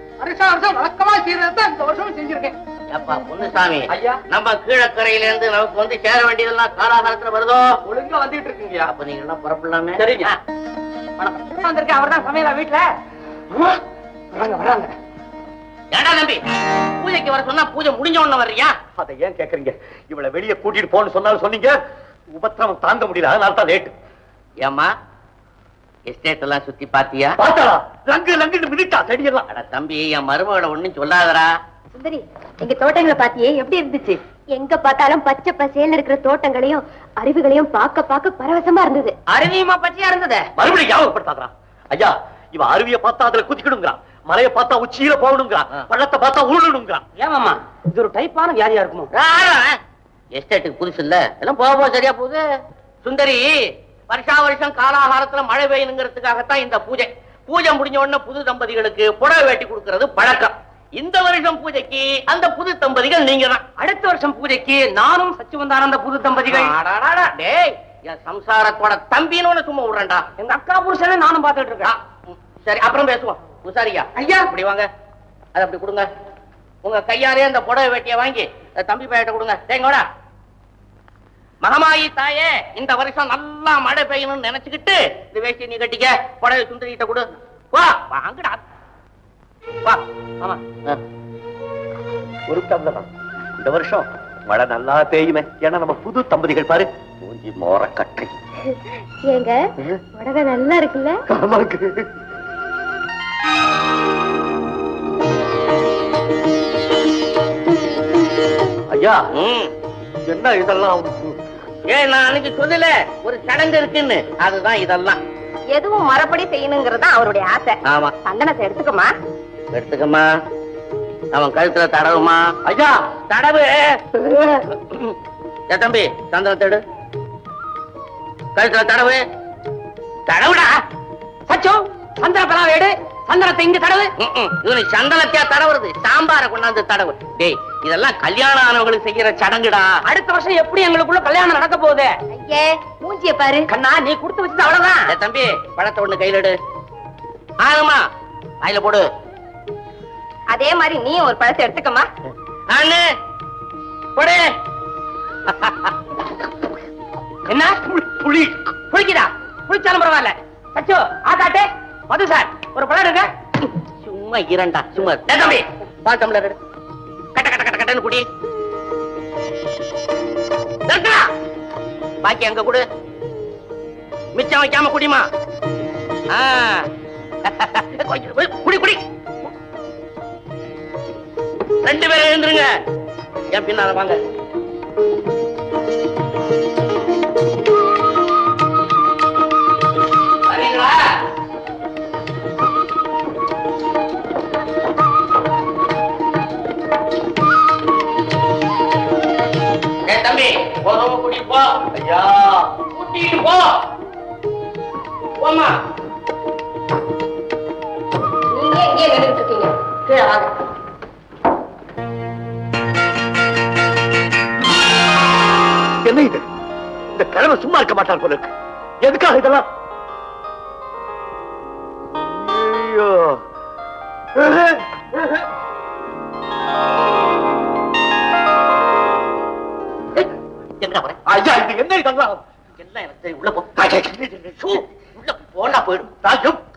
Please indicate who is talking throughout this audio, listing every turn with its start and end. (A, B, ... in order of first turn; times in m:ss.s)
0:00.4-0:01.0 A
0:02.9-0:07.7 B
0:07.9-0:08.7 C
0:08.8-0:10.4 B
0:10.0-0:10.3 A
0:11.2-0:12.9 A
0:13.5-0:13.8 A
0:14.3-0:14.9 A
0:15.9-0:16.4 B
0:17.0-0:18.7 B
0:19.0-0:21.8 C
0:22.3-0:24.0 C
0:24.6-0:24.9 B
0:26.1-0:27.4 B
0:27.4-0:29.4 C
0:29.5-0:31.5 B
0:31.9-0:39.1 D
0:39.3-0:40.5 A
0:40.6-0:47.0 C
0:47.2-0:49.1 A
0:49.1-0:49.8 B
0:50.4-0:52.4 B
0:53.0-0:53.5 B
0:54.1-1:03.6 B
1:03.8-1:06.7 A
1:06.4-1:10.3 B
1:10.4-1:11.9 A
1:11.8-1:14.9 B
1:15.6-1:16.1 B
1:16.8-1:20.1 B
1:21.6-1:28.6 B
1:32.5-1:33.1 C
1:33.6-1:36.9 C
1:37.2-1:38.3 B
1:39.3-1:39.6 D
1:40.1-1:41.2 D
1:41.3-1:42.1 C
1:48.9-1:49.2 C
1:49.3-1:49.7 B
1:50.3-1:51.4 C
1:51.9-1:55.2 B
1:55.7-1:59.1 D
1:57.9-1:58.2 B
1:59.7-2:00.3 B
2:01.3-2:02.5 B
2:02.7-2:03.0 C
2:03.3-2:05.2 B
2:05.7-2:06.8 B
2:08.6-2:09.2 B
2:10.3-2:10.7 B
2:11.5-2:14.1 A
2:14.2-2:19.9 B
2:20.1-2:22.1 A
2:22.3-2:23.7 D
2:23.7-2:25.1 A
2:25.1-2:26.6 B
2:27.6-2:28.0 B
2:28.6-2:29.1 B
2:30.5-2:32.1 D
2:32.7-2:33.0 B
2:34.2-2:34.5 B
2:35.5-2:35.9 B
2:37.5-2:37.8 A
2:38.0-2:38.6 C
2:38.8-2:43.3 A
2:43.6-2:46.6 B
2:45.3-2:45.6 A
2:47.4-2:48.3 B
2:50.9-2:51.2 B
2:52.2-2:52.9 B
2:54.4-2:55.3 B
2:56.3-2:56.9 B
2:57.4-2:59.0 B
3:01.8-3:02.7 B
3:03.5-3:04.2 B
3:10.5-3:11.0 B
3:20.1-3:21.8 B
3:22.0-3:22.6 C
3:22.8-3:23.8 B
3:25.4-3:25.8 B
3:28.5-3:30.5 D
3:36.0-3:36.4 C
3:37.2-3:39.7 C
3:42.2-3:43.4 C
3:44.4-3:45.2 C
3:50.2-3:51.2 B
3:51.3-3:52.4 C
3:52.8-3:53.9 B
3:53.8-3:54.5 C
3:54.5-3:56.2 B
3:56.2-3:56.6 C